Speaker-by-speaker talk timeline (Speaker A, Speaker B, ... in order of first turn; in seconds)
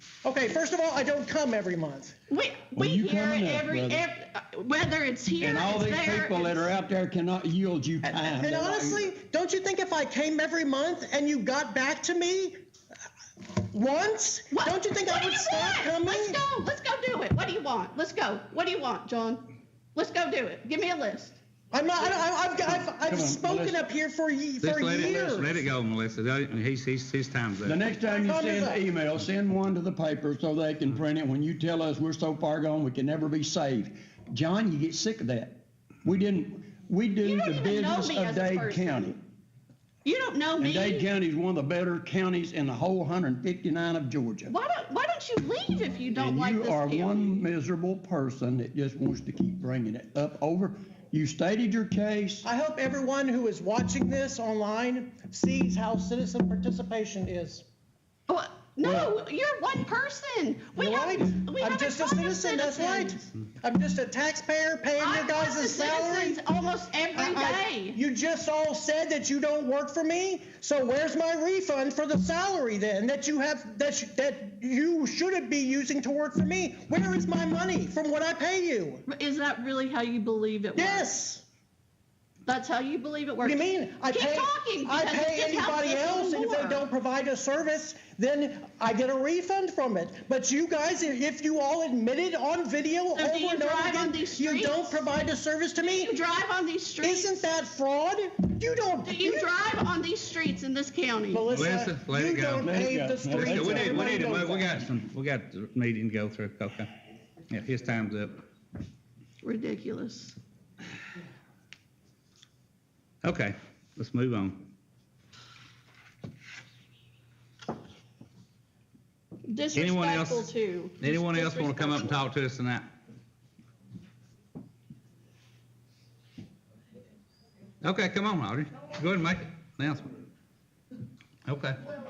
Speaker A: 0.2-2.1, 8.0-12.6, 13.6-16.4, 21.7-25.7, 28.0-28.9, 52.4-57.6, 60.8-66.4, 67.1-79.0, 80.8-81.4, 83.4-96.2, 97.0-99.5, 101.3-104.8
Speaker B: 2.3-6.7, 14.5-21.4, 37.2-39.1, 40.0-41.1, 44.5-47.4, 58.3-63.3, 65.0-68.0, 79.1-81.1, 82.5-86.9, 93.2-95.1, 95.8-97.5, 99.0-101.6, 109.4-110.4, 119.5-122.2
Speaker C: 2.7-4.0, 5.4-9.1, 22.6-23.9, 27.6-39.2, 40.6-44.5, 46.1-52.5, 58.8-59.1, 102.6-104.5
Speaker D: 24.6-27.8, 101.5-106.9, 107.5-108.4, 113.2-114.7, 119.7-122.9, 127.8-130.1, 131.4-131.8